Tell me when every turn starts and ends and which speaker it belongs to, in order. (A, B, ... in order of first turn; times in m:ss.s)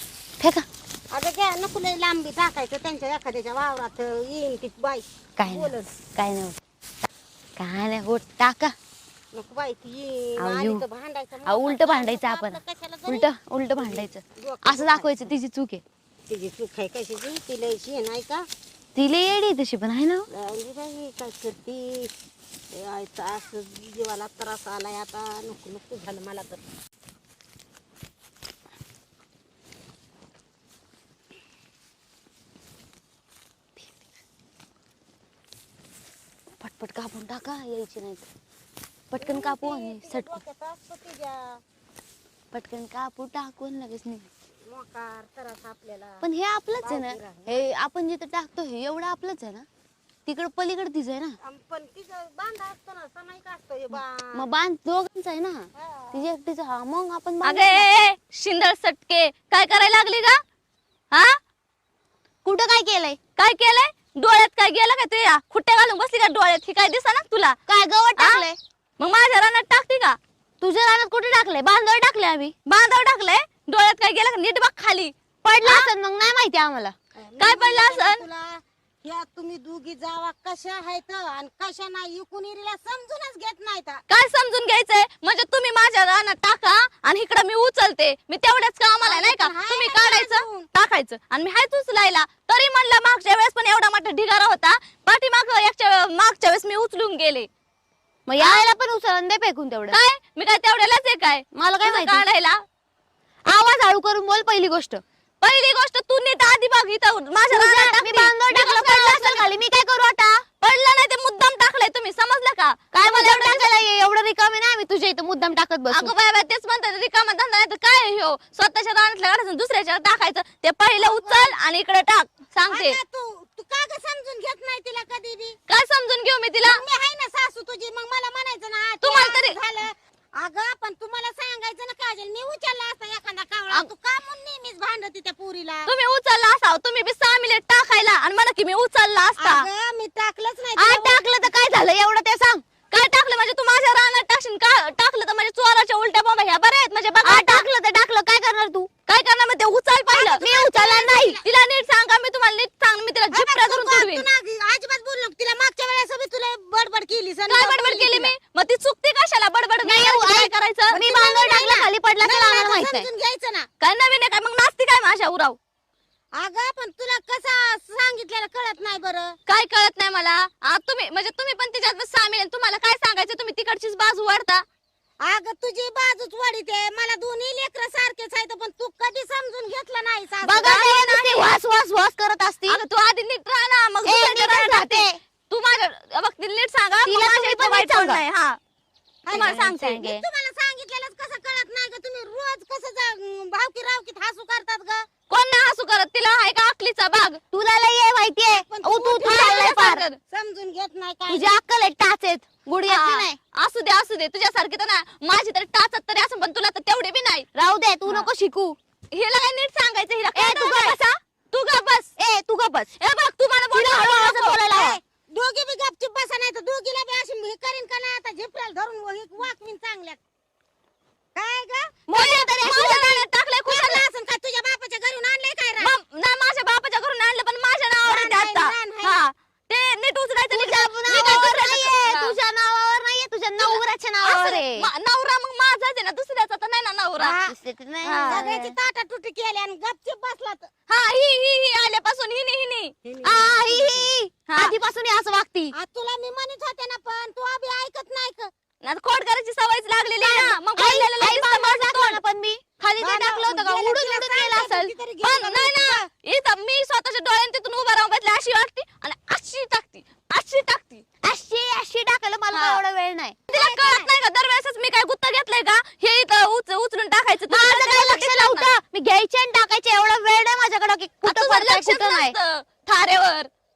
0:01.1-0:05.9 A
0:05.4-0:06.6 B
0:07.6-0:08.8 B
0:09.3-0:15.3 A
0:10.4-0:10.8 B
0:11.5-0:15.8 B
0:16.3-0:18.5 A
0:19.0-0:20.3 B
0:20.3-0:22.1 A
0:22.7-0:26.6 A
0:36.6-0:38.2 B
0:39.1-0:40.4 B
0:39.2-0:41.6 A
0:42.5-0:44.3 B
0:44.7-0:46.2 A
0:46.2-0:49.7 B
0:46.8-0:47.6 A
0:50.3-0:51.4 B
0:51.4-0:54.5 A
0:54.4-0:57.9 B
0:55.8-0:56.3 A
0:57.4-1:00.4 C
1:02.4-1:03.2 B
1:03.4-1:07.6 C
1:07.7-1:08.6 B
1:08.2-1:08.4 C
1:09.0-1:10.2 C
1:10.6-1:12.5 B
1:12.7-1:15.9 C
1:15.4-1:16.9 B
1:17.2-1:24.0 A
1:17.4-1:18.2 C
1:24.1-1:37.5 C
1:29.0-1:30.7 A
1:38.3-1:40.0 B
1:38.4-1:38.7 C
1:39.9-1:42.6 C
1:41.5-1:42.2 B
1:43.5-1:45.0 B
1:45.4-1:49.5 C
1:47.5-1:50.4 B
1:50.6-1:53.7 C
1:52.9-1:56.1 B
1:55.9-2:03.0 C
2:01.0-2:01.5 A
2:02.7-2:05.6 A
2:05.7-2:06.8 C
2:06.6-2:15.9 A
2:09.0-2:09.6 C
2:15.9-2:19.7 C
2:19.4-2:21.2 A
2:20.8-2:22.6 B
2:22.9-2:27.7 C
2:27.2-2:28.9 B
2:29.1-2:30.4 C
2:30.1-2:31.4 A
2:30.4-2:31.4 B
2:31.4-2:34.3 C
2:33.3-2:38.3 A
2:37.5-2:41.0 C
2:39.8-2:43.1 B
2:40.9-2:43.7 A
2:43.8-2:45.6 C
2:46.4-2:49.4 A
2:49.5-2:54.6 C
2:55.2-3:00.8 A
3:00.4-3:02.8 B
3:00.6-3:01.6 C
3:02.7-3:08.6 C
3:04.0-3:05.2 B
3:07.0-3:08.2 B
3:09.3-3:15.1 A
3:09.3-3:10.0 C
3:09.3-3:10.2 B
3:15.3-3:17.4 C
3:17.5-3:20.1 B
3:18.5-3:19.8 A
3:19.2-3:20.2 C
3:20.3-3:21.5 A
3:21.3-3:23.4 B
3:22.9-3:27.5 C
3:27.6-3:28.8 B
3:29.1-3:32.1 C
3:30.4-3:31.0 B
3:32.2-3:32.9 B
3:33.0-3:34.6 C
3:33.7-3:35.0 B
3:34.6-3:40.2 A
3:41.4-3:42.0 A
3:42.1-3:43.2 B
3:42.1-3:44.0 C
3:43.7-3:45.9 A
3:45.8-3:52.4 C
3:48.0-3:49.2 A
3:50.5-3:54.9 B
3:51.1-3:51.5 A
3:53.6-3:57.4 C
3:57.2-3:57.5 A
3:57.5-3:58.7 B
3:58.0-3:58.5 C
3:58.3-4:00.7 A
4:00.9-4:02.9 C
4:03.0-4:04.1 A
4:03.2-4:05.8 B
4:04.5-4:04.8 C
4:05.7-4:08.5 A
4:08.8-4:12.2 C
4:10.2-4:14.7 B
4:13.0-4:16.1 A
4:14.5-4:21.0 C
4:21.2-4:23.4 B
4:22.5-4:22.8 C
4:23.5-4:28.7 C
4:23.5-4:24.1 A
4:27.5-4:32.4 B
4:31.2-4:33.5 C